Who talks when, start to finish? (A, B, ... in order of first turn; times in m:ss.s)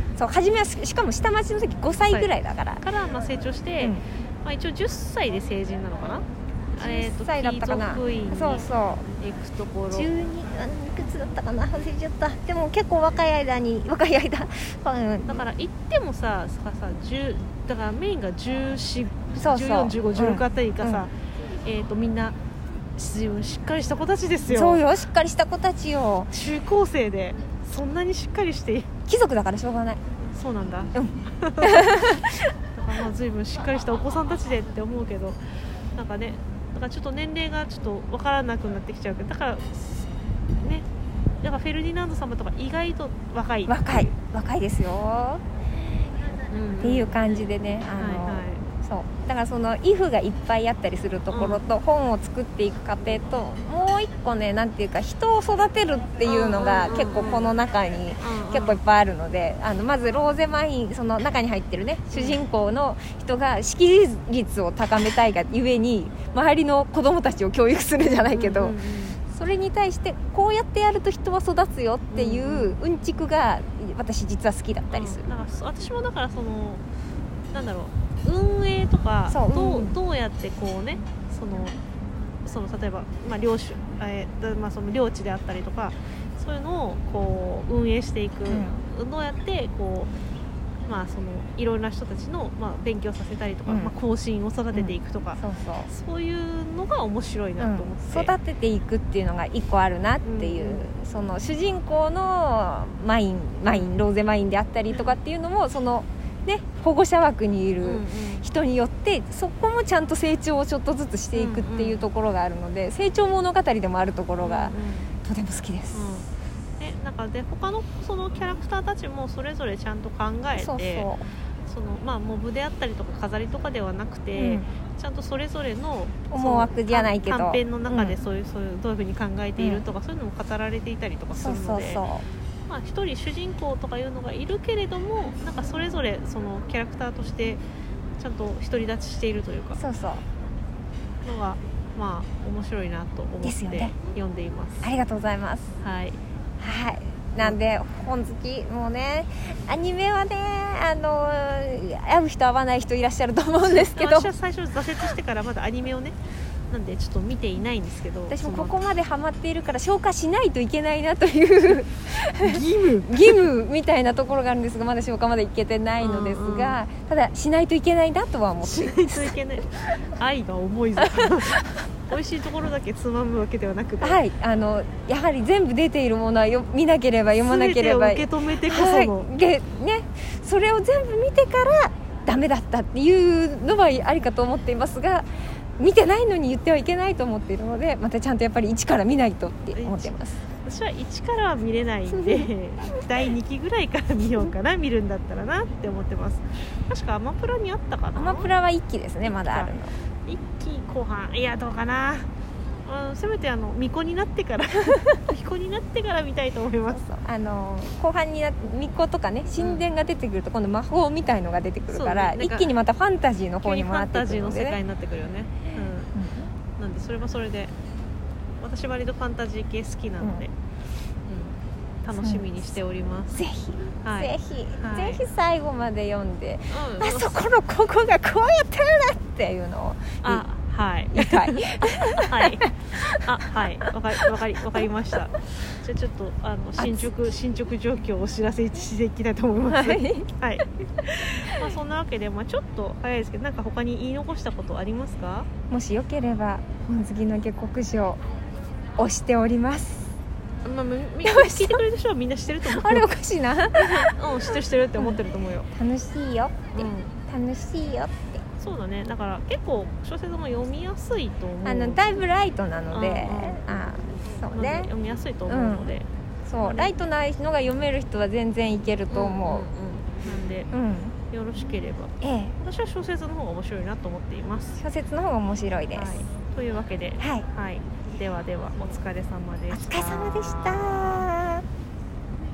0:00.2-0:02.8 A
0:02.0-0:08.7 B
0:06.8-0:09.0 A
0:09.2-0:10.1 B
0:09.9-0:15.4 A
0:15.2-0:21.1 B
0:19.4-0:21.0 A
0:21.6-0:22.4 B
0:23.0-0:24.8 B
0:24.5-0:26.3 A
0:26.3-0:28.9 B
0:29.1-0:30.0 A
0:30.3-0:32.2 B
0:30.9-0:32.5 A
0:32.7-0:35.4 B
0:35.9-0:40.0 B
0:40.6-0:40.8 B
0:41.4-0:44.1 B
0:43.7-0:45.4 A
0:46.5-0:47.1 B
0:46.8-1:08.8 A
0:47.9-0:48.6 B
0:51.3-0:51.6 B
0:56.2-0:57.5 B
0:58.2-0:58.8 B
1:02.1-1:02.4 B
1:08.0-1:09.2 B
1:09.3-1:15.4 A
1:12.1-1:12.8 B
1:14.9-1:16.8 B
1:17.5-1:21.7 B
1:19.3-1:20.0 A
1:22.4-1:30.1 B
1:28.5-1:28.8 A
1:30.9-1:38.3 B
1:33.7-1:33.9 A
1:34.7-1:35.9 A
1:37.6-1:56.1 A
1:40.2-1:40.9 B
1:43.7-1:44.0 B
1:44.9-1:45.2 B
1:47.8-1:48.5 B
1:51.3-1:52.1 B
1:54.4-1:55.1 B
1:55.9-1:56.3 B
1:56.8-2:01.1 B
2:00.6-2:01.2 A
2:01.7-2:12.0 B
2:04.4-2:04.7 A
2:06.3-2:08.2 A
2:09.6-2:09.8 A
2:11.3-2:12.2 A
2:12.7-2:17.6 B
2:18.2-2:19.8 B
2:19.8-2:20.2 A
2:21.2-2:24.9 B
2:23.4-2:23.9 A
2:24.8-2:25.8 A
2:25.8-2:26.2 B
2:26.6-2:34.3 A
2:33.6-2:36.2 B
2:36.7-2:38.8 B
2:38.3-2:49.3 A
2:42.4-2:43.5 B
2:46.0-2:46.8 B
2:48.6-2:54.2 B
2:51.1-2:51.7 A
2:54.0-3:05.2 A
2:57.4-2:59.3 B
3:05.8-3:10.4 A
3:09.7-3:18.5 B
3:12.1-3:12.5 A
3:18.2-3:19.9 A
3:19.2-3:22.3 B
3:22.8-3:27.0 B
3:26.9-3:34.8 A
3:29.6-3:29.9 B
3:31.9-3:32.7 B
3:33.6-3:36.1 B
3:36.1-3:36.5 A
3:36.8-3:37.7 B
3:38.6-3:40.5 B
3:40.2-3:40.4 A
3:41.3-3:43.4 B
3:42.1-3:42.8 A
3:43.3-3:50.4 A
3:44.0-3:45.2 B
3:46.7-3:47.4 B
3:50.2-3:52.6 B
3:51.1-3:53.2 A
3:53.2-4:05.5 B
3:56.8-3:57.1 A
3:59.7-4:00.3 A
4:05.7-4:08.2 A
4:09.0-4:10.1 A
4:10.6-4:13.1 B
4:11.2-4:11.8 A
4:12.6-4:14.2 A
4:13.8-4:15.7 B
4:15.7-4:18.4 A
4:16.7-4:17.1 B
4:18.6-4:22.0 B
4:21.6-4:24.9 A
4:22.9-4:23.7 B
4:24.5-4:26.1 B
4:25.5-4:25.9 A
4:26.5-4:29.7 A
4:26.6-4:26.9 B
4:29.1-4:30.7 B
4:30.7-4:31.2 A
4:31.3-4:34.8 B
4:32.2-4:32.5 A
4:34.8-4:36.1 A
4:35.9-4:41.3 B
4:37.2-4:37.4 A
4:39.7-4:41.6 A